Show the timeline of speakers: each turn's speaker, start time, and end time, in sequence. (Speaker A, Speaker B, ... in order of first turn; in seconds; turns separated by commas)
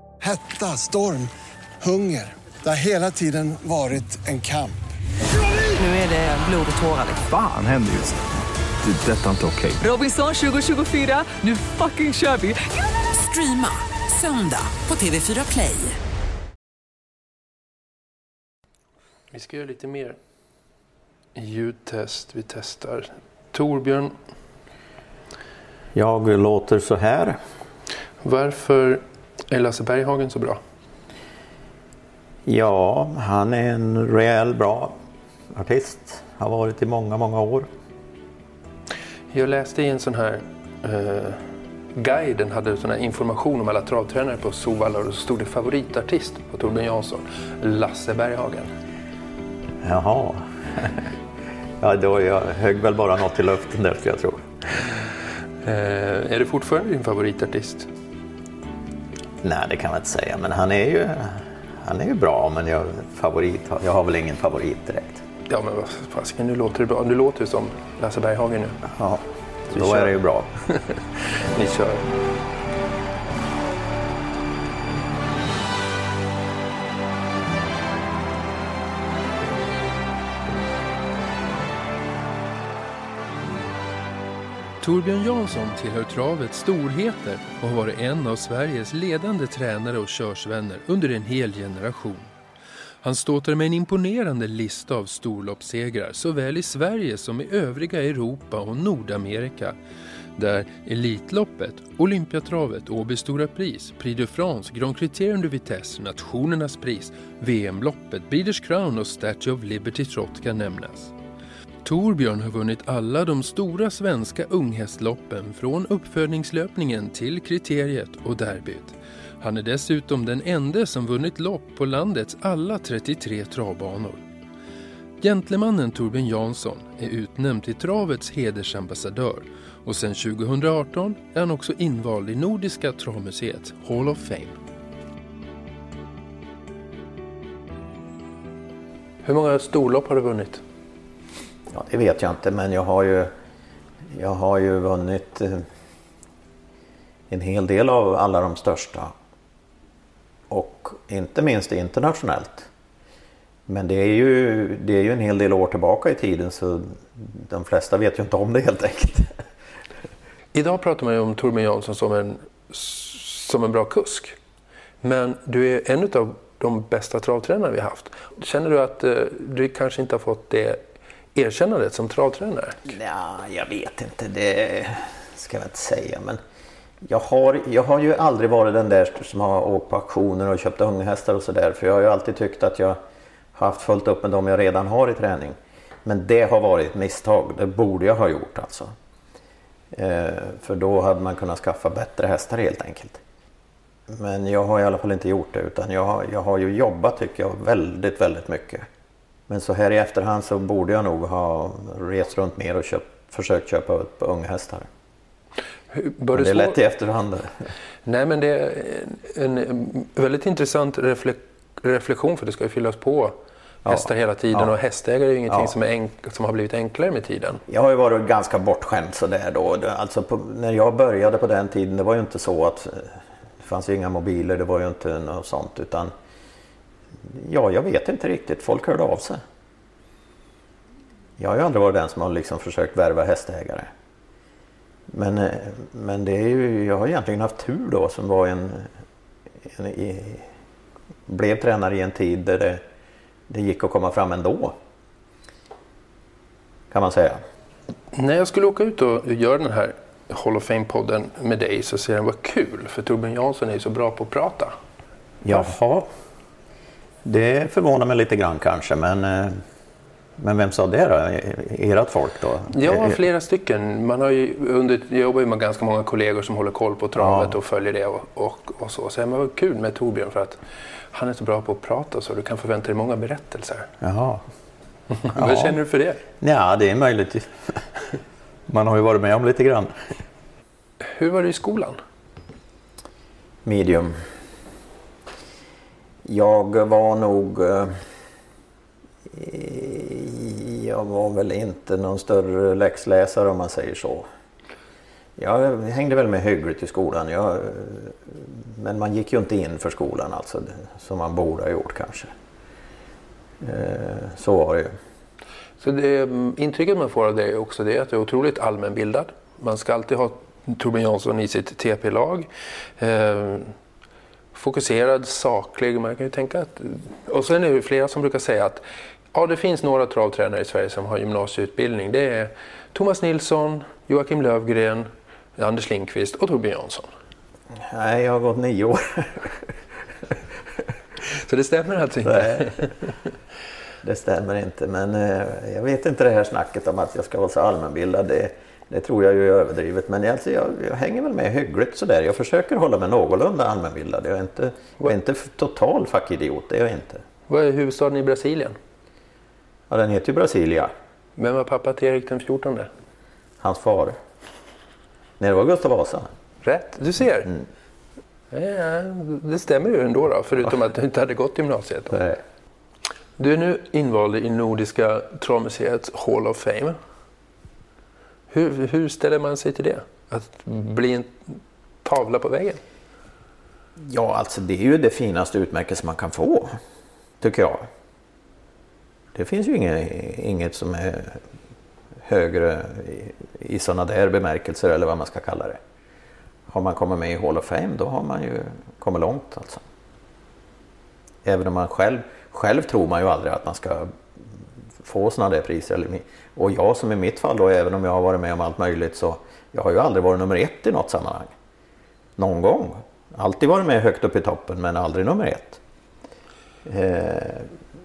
Speaker A: 0.2-1.3, Speaker A: 1.8-4.8, Speaker B: 5.7-7.2, Speaker C: 7.3-8.2, Speaker C: 8.8-9.8, Speaker B: 9.8-16.0, Speaker D: 19.3-20.2, Speaker D: 21.4-24.1, Speaker E: 25.9-27.4, Speaker D: 28.2-30.6, Speaker E: 32.5-35.0, Speaker E: 35.5-37.7, Speaker D: 39.3-41.4, Speaker D: 42.0-48.7, Speaker E: 49.8-51.1, Speaker E: 51.8-54.5, Speaker D: 55.6-57.9, Speaker E: 59.4-65.2, Speaker D: 65.5-68.8, Speaker E: 68.8-70.5, Speaker D: 69.7-70.1, Speaker D: 70.8-72.0, Speaker D: 84.8-92.3, Speaker D: 93.0-99.8, Speaker D: 100.4-111.1, Speaker D: 111.8-124.2, Speaker D: 125.2-134.5, Speaker D: 139.2-140.6, Speaker E: 141.7-143.3, Speaker E: 144.1-145.7, Speaker E: 147.3-149.1, Speaker E: 150.5-152.7, Speaker E: 153.7-159.3, Speaker D: 160.5-164.4, Speaker D: 165.0-170.8, Speaker D: 171.3-172.9, Speaker E: 172.9-176.4, Speaker E: 177.1-183.0, Speaker E: 183.6-188.9, Speaker E: 189.9-193.2, Speaker E: 194.1-198.9, Speaker E: 199.5-204.9, Speaker D: 205.9-206.8, Speaker E: 206.3-207.7, Speaker D: 208.1-213.3, Speaker E: 213.8-214.7, Speaker D: 213.9-217.6, Speaker E: 217.7-226.1, Speaker E: 227.2-229.4, Speaker E: 231.4-233.9, Speaker E: 235.1-238.9, Speaker E: 239.6-240.5, Speaker E: 241.3-242.8, Speaker E: 243.5-244.8, Speaker E: 246.9-247.4, Speaker D: 248.1-254.7, Speaker E: 255.4-256.1, Speaker E: 257.2-259.6, Speaker E: 260.4-263.2, Speaker D: 262.7-270.6, Speaker E: 267.2-267.6, Speaker D: 271.1-273.9, Speaker E: 274.0-274.4, Speaker D: 275.2-276.2, Speaker E: 275.4-275.8, Speaker E: 276.4-277.8, Speaker E: 278.7-279.9, Speaker D: 281.1-282.0, Speaker E: 283.6-284.2, Speaker E: 286.2-288.0, Speaker E: 289.3-294.3, Speaker E: 295.4-302.3, Speaker E: 303.6-304.9, Speaker D: 305.8-313.7, Speaker D: 314.5-318.8, Speaker D: 319.3-327.1, Speaker E: 327.8-329.7, Speaker D: 331.3-332.9, Speaker E: 332.2-332.7, Speaker E: 334.0-347.2, Speaker D: 347.5-348.8, Speaker E: 349.9-350.9, Speaker D: 351.4-352.9, Speaker E: 353.6-354.2, Speaker E: 355.4-356.3, Speaker D: 356.6-357.5, Speaker D: 358.5-362.2, Speaker E: 362.1-362.4, Speaker D: 363.4-367.0, Speaker D: 368.5-372.8, Speaker E: 374.0-376.8, Speaker E: 377.4-377.8, Speaker E: 379.3-381.4, Speaker E: 382.2-385.8, Speaker E: 386.7-389.8, Speaker E: 391.4-394.1, Speaker E: 395.0-401.5, Speaker E: 402.4-405.8, Speaker E: 406.9-407.7